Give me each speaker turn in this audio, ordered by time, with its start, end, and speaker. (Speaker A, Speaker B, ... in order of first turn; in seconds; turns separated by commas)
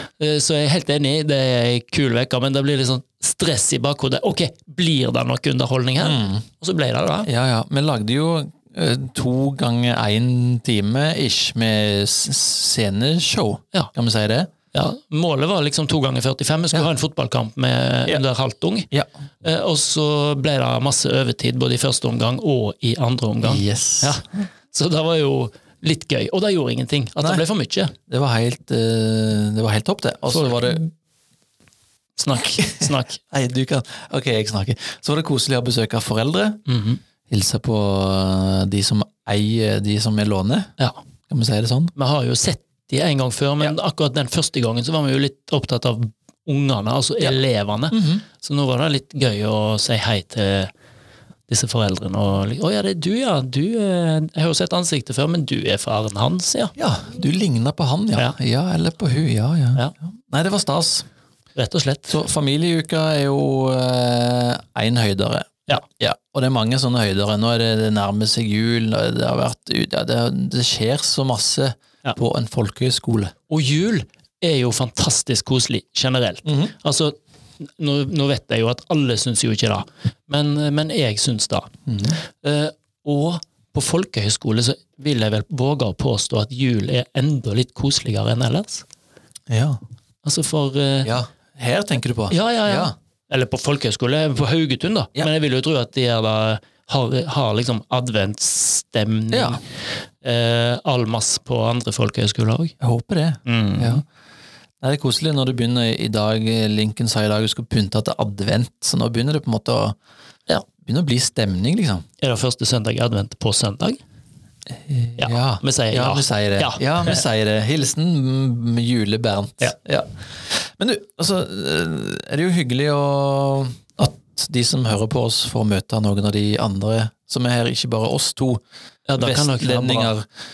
Speaker A: 0.2-7.3, Speaker B: 6.0-6.4, Speaker B: 7.2-14.5, Speaker A: 14.7-18.9, Speaker A: 19.4-27.9, Speaker B: 23.4-24.4, Speaker B: 28.1-30.9, Speaker A: 30.3-30.8, Speaker A: 32.2-33.2, Speaker B: 32.5-36.6, Speaker A: 36.7-37.0, Speaker B: 37.3-40.7, Speaker B: 41.3-41.9, Speaker A: 42.0-50.7, Speaker B: 47.9-48.2, Speaker A: 51.5-56.7, Speaker B: 56.8-61.0, Speaker A: 61.5-62.2, Speaker B: 62.1-73.3, Speaker A: 73.5-81.7, Speaker B: 76.4-76.7, Speaker B: 81.9-82.2, Speaker A: 82.4-88.8, Speaker B: 89.5-89.8, Speaker A: 90.2-91.1, Speaker B: 91.0-92.9, Speaker A: 92.3-99.6, Speaker B: 99.3-99.6, Speaker A: 100.2-102.7, Speaker B: 102.8-104.0, Speaker A: 103.5-104.0, Speaker B: 104.8-110.0, Speaker B: 110.8-112.0, Speaker A: 112.2-114.0, Speaker B: 114.7-128.6, Speaker A: 115.2-117.2, Speaker A: 129.1-130.1, Speaker B: 129.2-130.2